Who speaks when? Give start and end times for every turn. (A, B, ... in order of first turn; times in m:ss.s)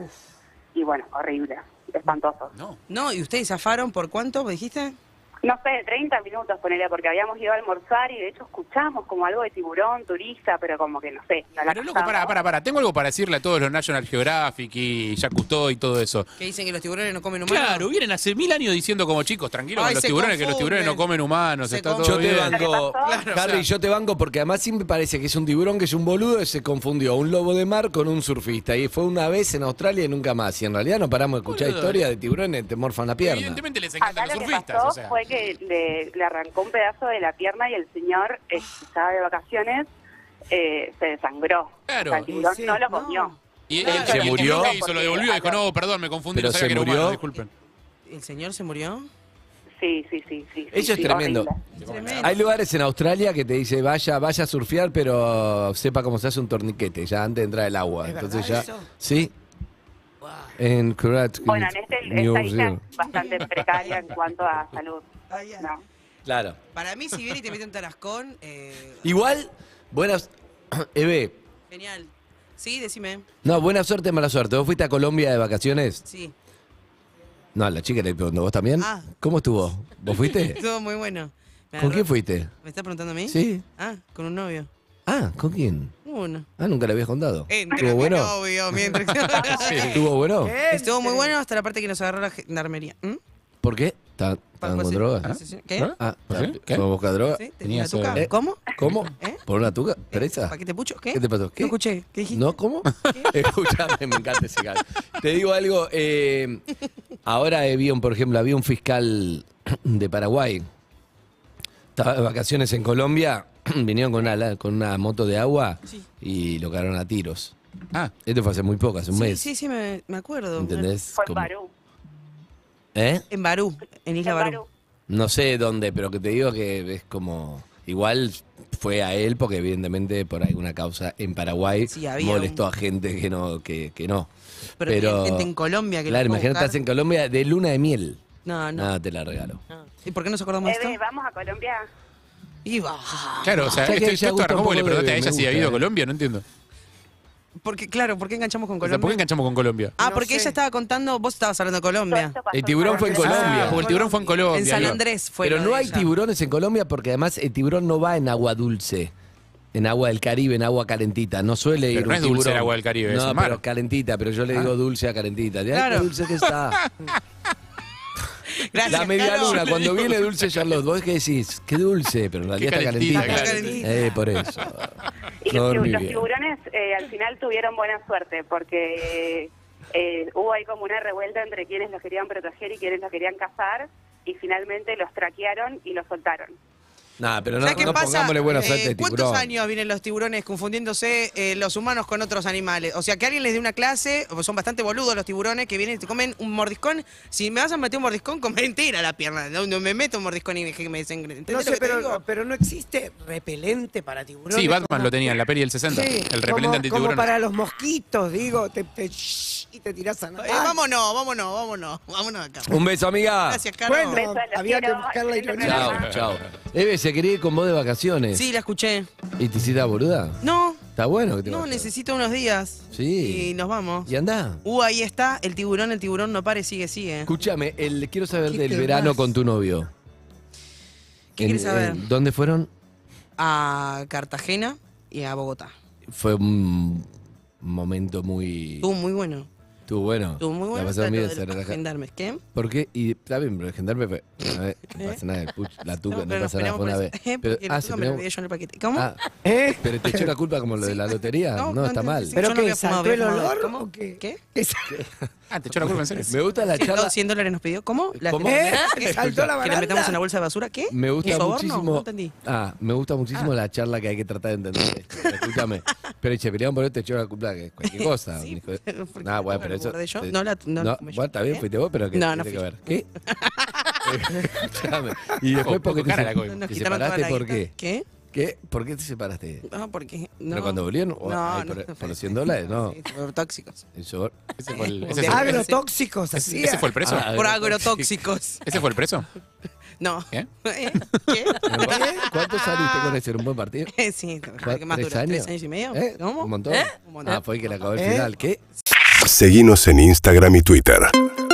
0:00.7-0:02.5 A
0:02.5-0:02.8 B
0:02.9-0:05.0 C
0:05.4-0:12.4 A
0:11.6-0:16.3 B
0:16.4-0:17.8 C
0:17.4-0:22.6 B
0:19.7-0:21.0 C
0:21.6-0:22.3 C
0:22.0-0:33.6 D
0:22.5-0:23.2 A
0:23.0-0:23.4 C
0:23.3-0:23.6 B
0:31.5-0:32.0 B
0:33.2-0:35.2 B
0:34.0-0:39.9 A
0:40.5-0:45.6 A
0:41.9-0:42.3 B
0:42.3-0:42.8 E
0:42.8-0:44.6 C
0:43.7-0:47.5 B
0:43.9-0:44.7 D
0:46.3-0:47.2 D
0:48.0-0:49.1 C
0:49.8-0:51.6 A
0:50.7-0:51.5 D
0:51.8-0:52.4 C
0:51.8-0:52.4 B
0:52.2-0:59.3 D
0:58.0-0:58.9 E
1:00.6-1:02.8 D
1:01.4-1:05.8 A
1:03.1-1:04.0 C
1:05.3-1:05.7 C
1:06.2-1:06.6 D
1:06.7-1:09.0 C
1:09.0-1:11.4 D
1:11.7-1:13.2 C
1:13.4-1:16.0 D
1:16.0-1:16.3 C
1:17.5-1:20.6 D
1:18.8-1:19.1 C
1:20.5-1:22.1 C
1:21.8-1:22.5 D
1:22.6-1:24.7 C
1:23.3-1:23.6 D
1:25.0-1:26.0 D
1:26.0-1:26.5 C
1:26.6-1:28.3 D
1:27.5-1:30.1 C
1:28.9-1:30.0 B
1:29.9-1:30.6 D
1:30.4-1:31.3 E
1:30.7-1:33.2 C
1:33.6-1:35.4 D
1:34.6-1:35.9 C
1:35.2-1:36.8 B
1:35.9-1:37.4 D
1:37.3-1:38.7 C
1:37.6-1:39.1 B
1:38.1-1:40.6 D
1:40.1-1:43.3 C
1:41.1-1:41.7 D
1:42.3-1:46.6 D
1:47.2-1:50.7 D
1:51.9-1:57.5 D
1:58.2-1:59.5 D
1:59.1-2:00.9 C
2:00.6-2:01.5 D
2:01.1-2:01.7 A
2:02.9-2:03.2 D
2:03.3-2:04.6 C
2:04.2-2:04.6 A
2:05.1-2:14.3 D
2:11.9-2:12.6 C
2:14.8-2:16.8 C
2:14.8-2:15.5 D
2:16.0-2:19.6 D
2:18.4-2:18.9 C
2:20.0-2:21.0 C
2:20.6-2:21.9 A
2:22.6-2:23.6 C
2:23.4-2:26.4 B
2:23.7-2:25.8 D
2:27.6-2:29.2 C
2:28.8-2:30.0 B
2:30.0-2:32.4 C
2:30.0-2:30.4 E
2:32.1-2:33.9 A
2:32.5-2:33.9 D
2:33.1-2:35.0 B
2:33.3-2:33.8 C
2:33.4-2:34.6 E
2:34.5-2:36.1 C
2:34.8-2:39.1 D
2:39.7-2:46.8 D
2:41.9-2:43.6 B
2:45.7-2:46.1 C
2:48.5-2:50.1 C
2:48.8-2:56.3 D
2:52.6-2:53.8 B
2:53.1-2:54.1 E
2:53.2-2:53.9 C
2:55.4-3:06.5 A
3:07.2-3:09.5 D
3:07.6-3:22.2 C
3:21.5-3:25.4 E
3:24.5-3:27.3 B
3:25.9-3:30.8 E
3:30.4-3:32.8 C
3:32.7-3:33.6 D
3:33.4-3:34.2 C
3:33.8-3:36.0 E
3:34.1-3:36.1 A
3:35.6-3:38.4 D
3:38.3-3:39.1 C
3:39.4-3:41.9 D
3:40.4-3:40.8 C
3:41.4-3:44.1 C
3:42.9-3:44.6 D
3:44.6-3:47.3 C
3:47.2-3:49.9 D
3:48.5-3:49.0 E
3:51.3-3:52.0 C
3:51.4-3:52.7 D
3:53.4-3:55.7 C
3:56.1-3:57.1 D
3:57.6-3:58.9 D
3:58.8-3:59.5 C
3:59.9-4:01.8 D
4:00.4-4:02.4 C
4:02.5-4:08.2 D
4:06.1-4:09.1 C
4:09.4-4:10.3 E
4:09.8-4:12.4 D
4:11.6-4:14.4 C
4:12.3-4:15.1 E
4:15.5-4:16.4 B
4:15.8-4:17.2 D
4:16.8-4:22.3 C
4:18.1-4:19.6 D
4:18.4-4:20.2 E
4:20.9-4:33.1 D
4:25.2-4:25.5 C
4:27.8-4:32.7 C
4:33.2-4:34.6 C
4:34.0-4:37.7 D
4:35.6-4:36.7 B
4:36.4-4:38.0 C
4:38.3-4:39.6 D
4:39.6-4:43.8 C
4:40.5-4:43.0 D
4:43.9-4:45.5 D
4:44.6-4:45.7 B
4:44.7-4:45.8 C
4:45.3-4:47.0 E
4:46.5-4:47.3 B
4:47.0-4:48.2 D
4:47.1-4:48.6 C
4:48.6-4:49.3 B
4:50.0-4:53.1 C
4:50.3-4:51.5 B
4:51.6-4:53.9 D
4:53.9-4:57.4 C
4:54.6-4:58.6 D
4:58.0-4:58.3 E
4:59.1-5:01.1 F